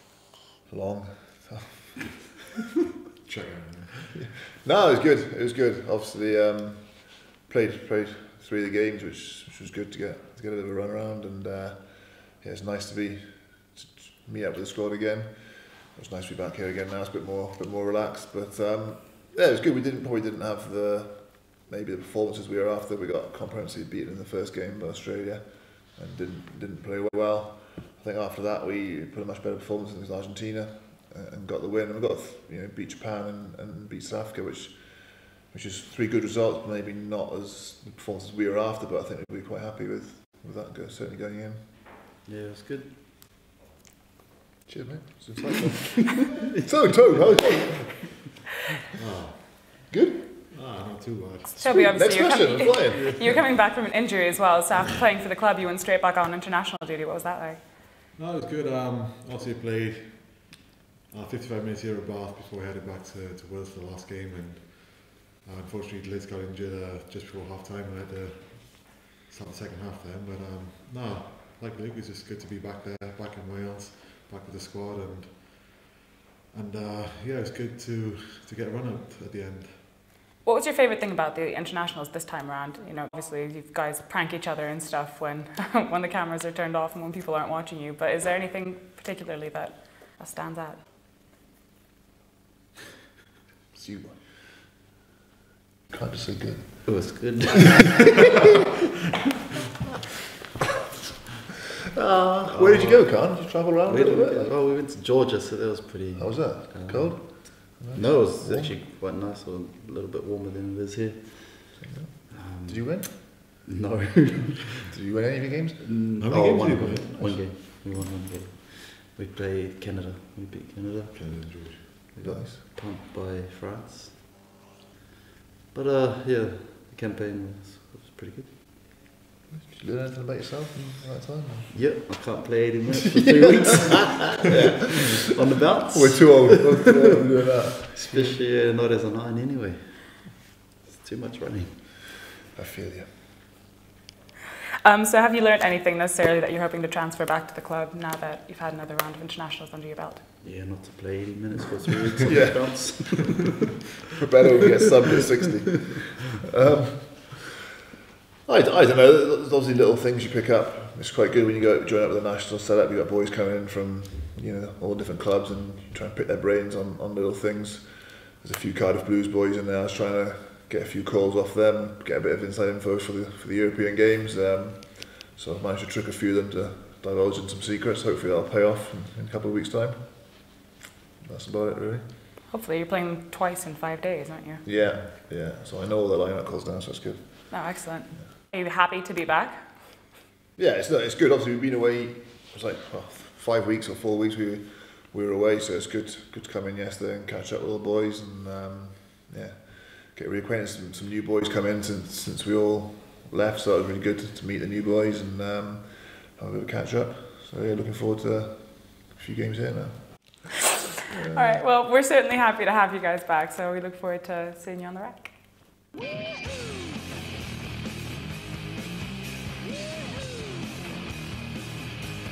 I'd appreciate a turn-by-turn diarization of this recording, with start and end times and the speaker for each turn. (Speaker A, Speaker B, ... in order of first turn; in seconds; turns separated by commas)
Speaker A: 0.7-2.1, Speaker B: 3.2-4.2, Speaker A: 4.2-41.6, Speaker C: 42.2-43.0, Speaker A: 44.7-48.2, Speaker B: 49.0-49.9, Speaker A: 49.9-50.3, Speaker B: 50.5-51.9, Speaker D: 51.5-57.7, Speaker A: 51.7-53.4, Speaker B: 53.0-53.3, Speaker B: 58.1-75.8, Speaker B: 76.5-79.9, Speaker D: 80.4-90.8, Speaker A: 93.7-94.5, Speaker A: 95.9-97.3, Speaker C: 96.8-98.4, Speaker A: 101.9-104.5, Speaker C: 102.5-114.7, Speaker A: 106.2-108.8, Speaker A: 111.8-113.1, Speaker A: 114.9-116.0, Speaker C: 115.8-124.2, Speaker B: 116.2-117.4, Speaker A: 117.2-117.5, Speaker B: 121.1-122.1, Speaker A: 122.2-122.6, Speaker C: 125.7-128.6, Speaker A: 129.5-132.0, Speaker C: 131.7-136.8, Speaker A: 135.9-138.1, Speaker C: 137.9-142.0, Speaker A: 142.5-143.1, Speaker D: 144.8-150.3, Speaker C: 150.4-153.7, Speaker A: 152.3-153.1, Speaker A: 154.2-157.5, Speaker A: 158.4-180.6, Speaker A: 181.2-182.0, Speaker D: 182.5-184.6, Speaker A: 184.6-188.2, Speaker D: 187.5-189.6, Speaker A: 190.6-211.6, Speaker D: 211.3-215.3